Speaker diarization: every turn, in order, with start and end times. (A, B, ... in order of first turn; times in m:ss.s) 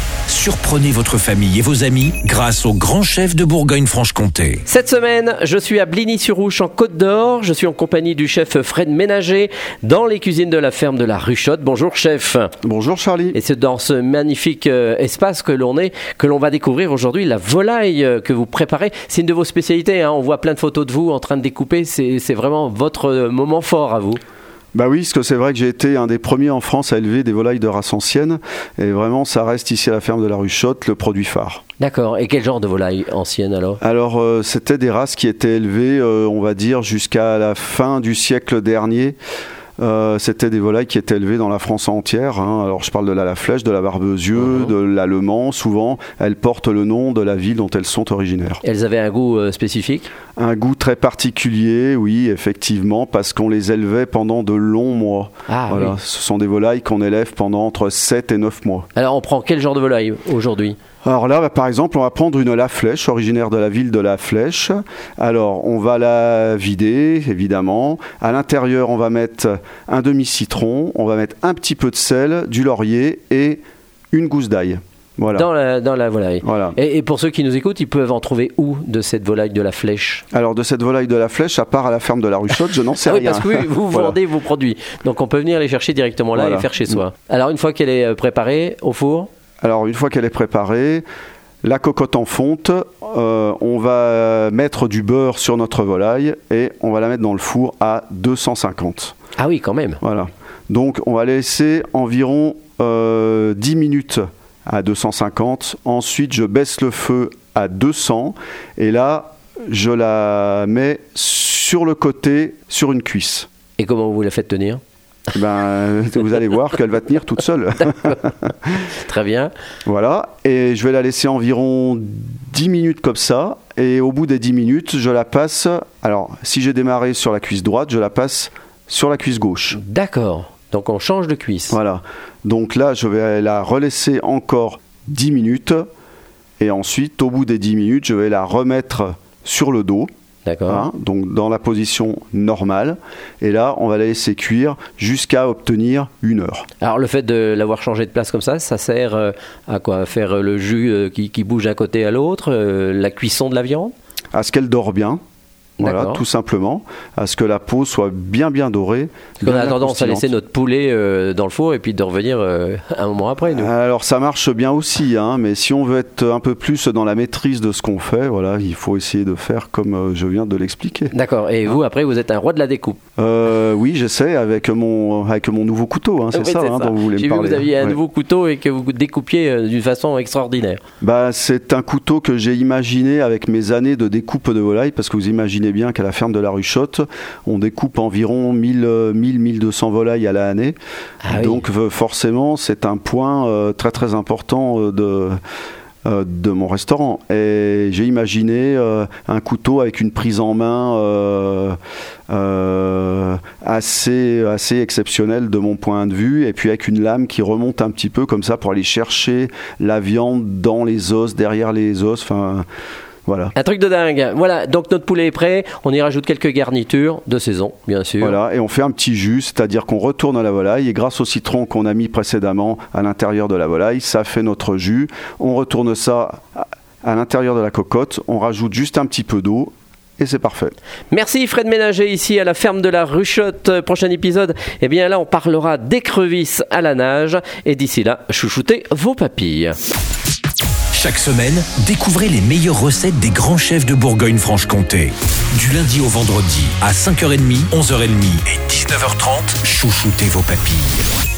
0:00.3-0:04.6 A
0:04.7-0:12.5 B
0:12.6-0:13.4 C
0:13.3-0:24.2 B
0:24.7-0:31.6 C
0:31.8-0:33.8 B
0:33.8-0:39.2 C
0:39.8-0:48.6 C
0:44.4-0:44.7 B
0:48.6-0:50.1 B
0:50.4-0:58.9 C
0:55.5-0:56.0 B
0:58.9-1:00.8 B
1:01.0-1:15.5 C
1:15.3-1:20.2 B
1:16.4-1:16.8 C
1:20.3-1:24.2 C
1:23.0-1:29.3 B
1:26.3-1:27.0 C
1:29.6-1:31.0 C
1:31.6-1:39.1 C
1:39.4-1:40.0 B
1:40.0-1:53.5 C
1:53.8-1:54.8 B
1:55.3-1:58.5 C
1:59.0-1:59.5 B
1:59.8-2:09.8 C
2:09.7-2:11.8 B
2:11.7-2:15.8 C
2:16.6-2:20.1 C
2:20.4-2:20.9 B
2:20.7-2:26.6 C
2:26.8-2:33.9 B
2:34.3-2:35.2 C
2:35.8-2:40.3 C
2:35.8-2:36.2 B
2:39.4-2:43.7 B
2:43.5-2:51.1 C
2:51.1-2:53.0 B
2:53.2-2:58.0 C
2:56.3-3:00.8 B
3:01.0-3:10.8 C
3:11.2-3:11.6 B
3:11.3-3:15.4 C
3:16.0-3:21.8 C
3:22.3-3:32.6 C
3:33.2-3:33.5 C
3:33.6-3:38.4 B
3:38.2-3:50.7 C
3:51.1-3:59.8 B
4:00.9-4:11.0 A